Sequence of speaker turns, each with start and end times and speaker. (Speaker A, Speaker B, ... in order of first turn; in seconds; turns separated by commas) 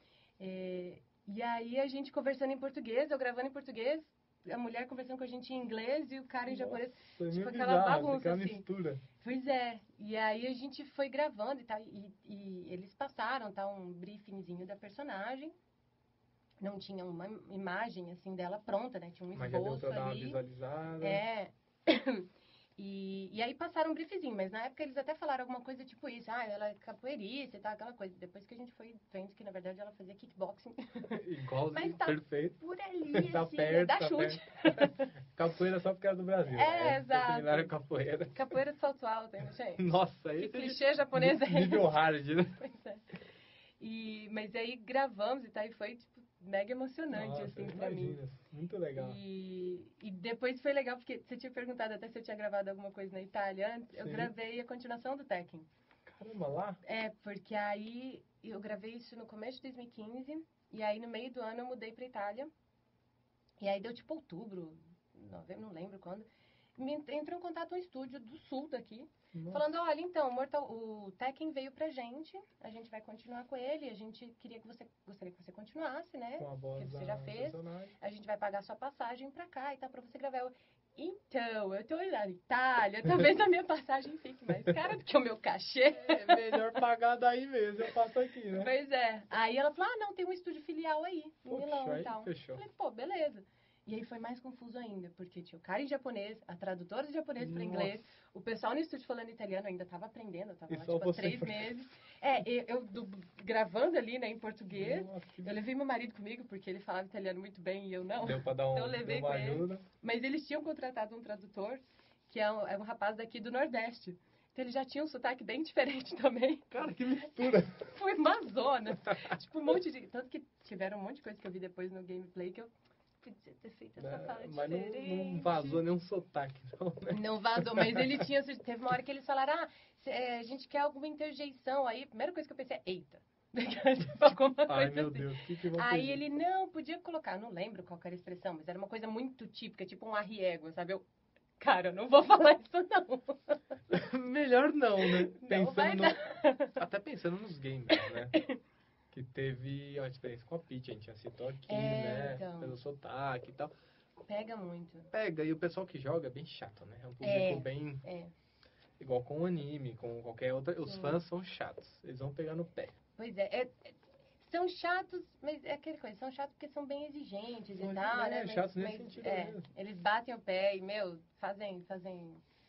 Speaker A: 0.4-8.7, Speaker B: 6.5-9.0, Speaker A: 9.2-15.6, Speaker A: 16.6-20.4, Speaker B: 19.3-21.2, Speaker A: 21.0-31.2, Speaker B: 31.1-32.6, Speaker A: 31.7-35.1, Speaker B: 33.1-38.5, Speaker A: 36.5-37.7, Speaker A: 38.3-42.0, Speaker B: 39.8-42.6, Speaker A: 42.6-43.0, Speaker A: 43.8-48.2, Speaker B: 47.1-49.2, Speaker A: 49.0-55.7, Speaker B: 53.9-54.3, Speaker B: 56.1-56.8, Speaker A: 56.9-62.5, Speaker A: 63.6-86.6, Speaker B: 69.3-69.7, Speaker B: 76.4-78.0, Speaker B: 86.0-88.7, Speaker A: 88.5-116.7, Speaker B: 91.5-92.6, Speaker B: 97.4-98.1, Speaker B: 100.7-101.8, Speaker B: 104.7-105.6, Speaker B: 108.2-109.8, Speaker B: 116.7-117.8, Speaker A: 117.8-122.7, Speaker A: 123.2-125.8, Speaker B: 124.0-128.2, Speaker A: 127.1-141.1, Speaker B: 134.7-136.2, Speaker A: 141.6-143.6, Speaker B: 143.9-146.2, Speaker A: 145.0-146.8, Speaker B: 146.8-148.3, Speaker A: 147.9-148.6, Speaker B: 149.1-153.7, Speaker A: 151.7-152.8, Speaker A: 154.2-155.1, Speaker B: 155.1-158.0, Speaker A: 157.2-158.3, Speaker B: 159.0-163.0, Speaker A: 160.8-161.2, Speaker A: 163.2-172.4, Speaker B: 167.8-169.7